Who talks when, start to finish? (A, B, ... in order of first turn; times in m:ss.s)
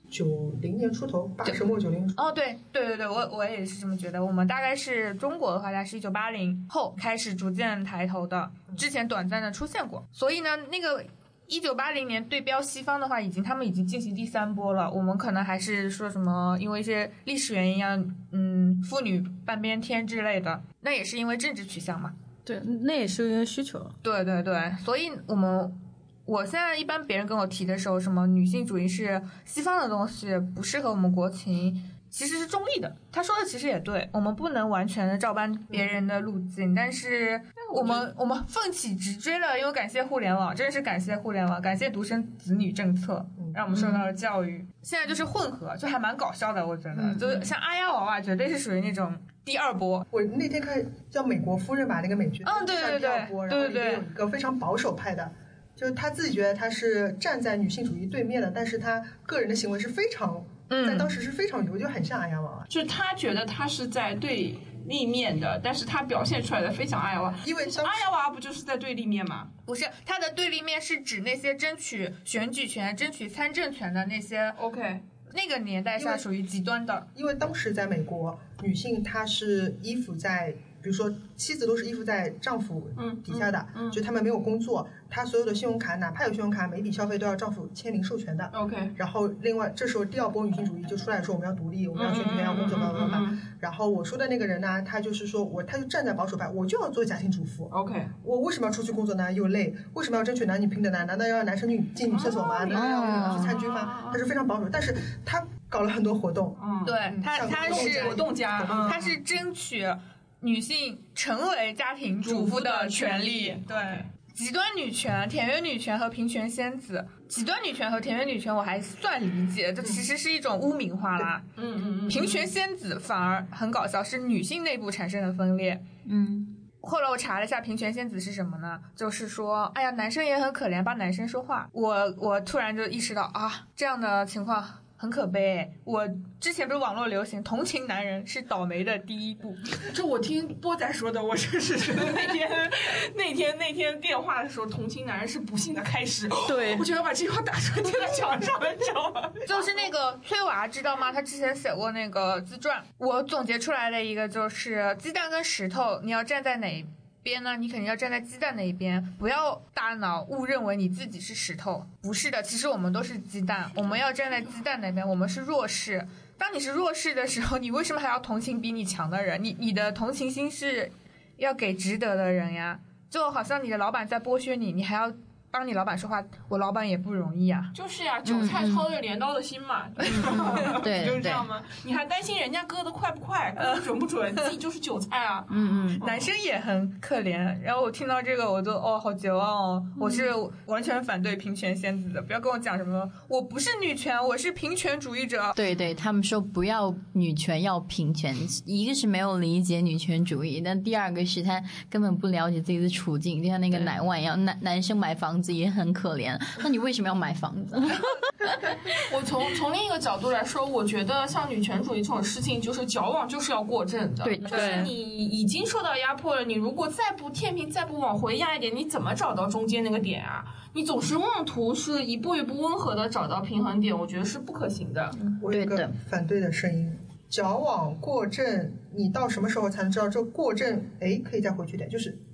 0:00.1-0:02.3 A
0:02.2-0:22.2 B
0:22.5-0:24.0 C
0:24.0-0:50.1 B
0:37.7-0:38.1 D
0:43.7-0:44.1 E
0:46.9-0:47.5 E
0:50.1-1:02.7 A
0:52.4-0:54.0 B
1:00.7-1:01.2 B
1:02.7-1:09.5 D
1:07.4-1:08.1 A
1:09.7-1:14.6 B
1:14.6-1:15.0 D
1:15.3-1:17.1 B
1:16.0-1:16.2 A
1:17.1-1:49.1 A
1:23.0-1:24.0 D
1:28.5-1:29.0 D
1:31.9-1:33.4 D
1:37.7-1:38.1 D
1:42.1-1:44.2 D
1:42.7-1:43.6 E
1:46.6-1:49.1 D
1:46.8-1:48.3 B
1:48.8-2:01.5 B
1:52.2-1:54.0 D
2:01.6-2:02.5 D
2:02.1-2:05.8 B
2:06.1-2:06.6 E
2:06.8-2:19.7 B
2:19.8-2:29.9 D
2:26.5-2:26.9 C
2:29.5-2:57.7 B
2:57.8-3:06.3 D
2:58.2-2:58.9 E
3:00.0-3:00.7 B
3:00.1-3:01.5 E
3:05.5-3:06.0 E
3:06.0-3:15.6 B
3:10.0-3:10.3 E
3:15.6-3:28.6 E
3:28.9-3:45.2 D
3:34.2-3:34.9 E
3:34.4-3:34.9 C
3:45.4-3:52.2 A
3:45.5-3:46.0 E